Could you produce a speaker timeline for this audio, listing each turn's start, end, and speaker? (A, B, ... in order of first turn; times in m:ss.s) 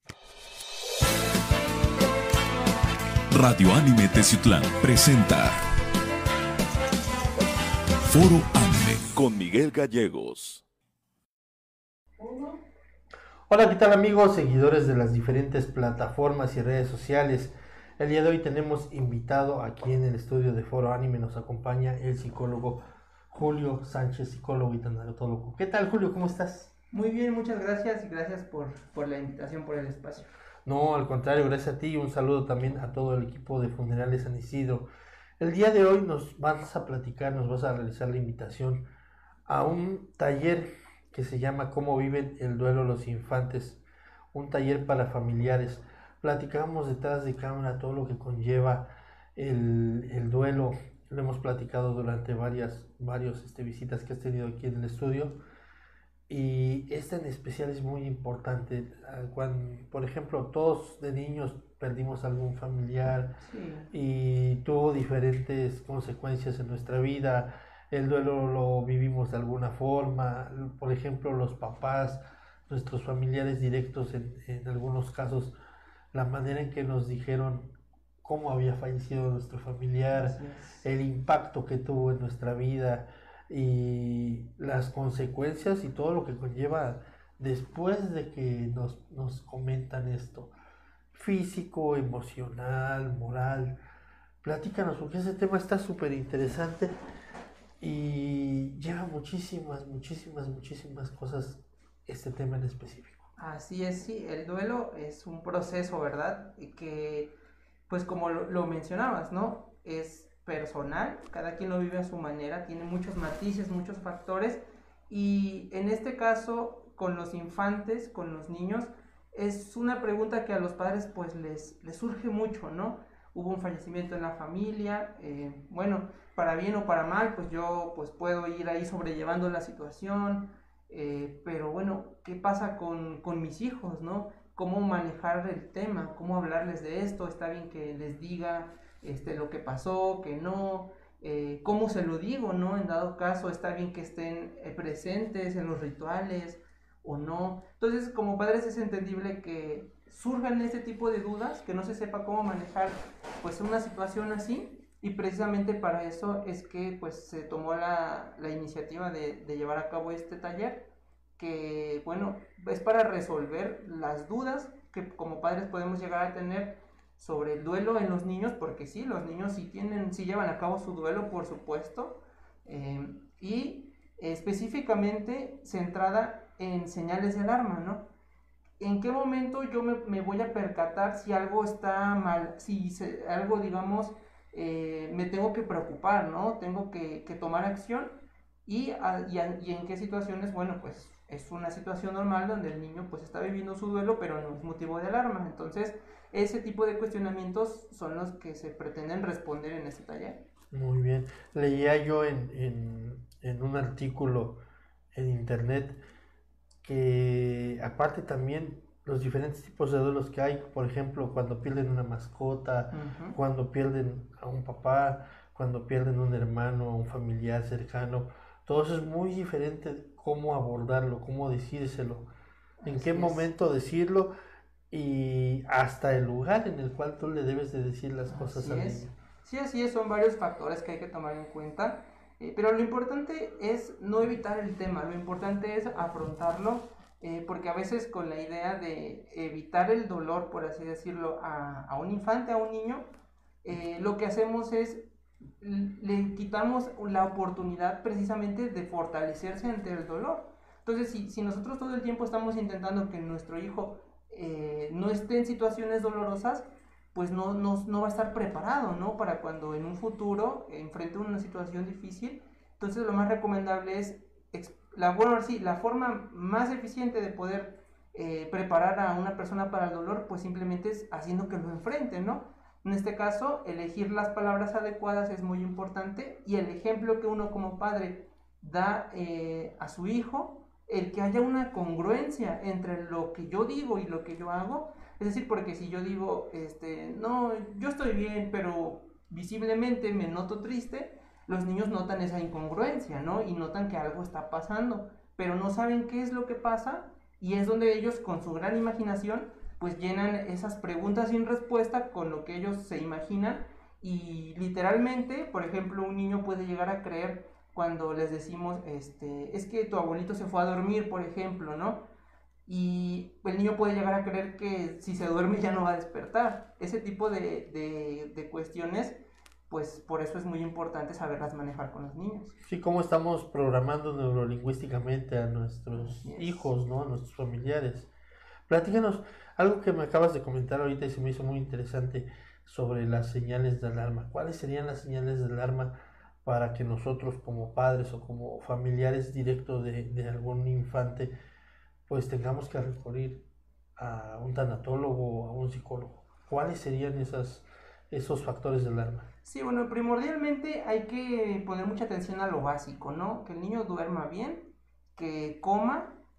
0:03.3-0:05.5 A
0:08.1-0:10.6 A
0:12.2-0:12.6 B
0:13.5-0:26.7 C
0:26.9-0:30.3 B
0:30.6-0:34.9 C
0:35.4-0:38.8 C
0:39.5-0:43.8 C
0:44.3-0:55.4 C
0:56.3-1:03.4 C
1:03.4-1:03.9 B
1:03.9-1:15.5 C
1:16.1-1:17.7 C
1:18.2-1:30.5 C
1:20.1-1:20.8 B
1:31.1-1:33.8 C
1:34.4-1:36.9 C
1:37.8-1:43.3 C
1:43.4-1:47.3 B
1:47.9-2:58.1 B
2:58.8-3:08.1 B
3:08.6-3:20.4 B
3:20.7-3:24.6 C
3:25.1-3:26.0 C
3:26.8-3:42.3 C
3:32.9-3:33.4 B
3:42.8-3:43.5 B
3:42.8-3:44.3 C
3:44.9-3:49.1 C
3:48.3-4:03.0 B
4:03.6-4:05.0 B
4:05.6-5:12.0 B
5:12.7-5:19.2 B
5:19.7-5:22.5 B
5:22.6-5:28.1 C
5:25.9-5:26.7 B
5:28.7-5:41.3 C
5:42.1-5:43.4 C
5:44.0-5:49.3 C
5:49.4-5:56.1 B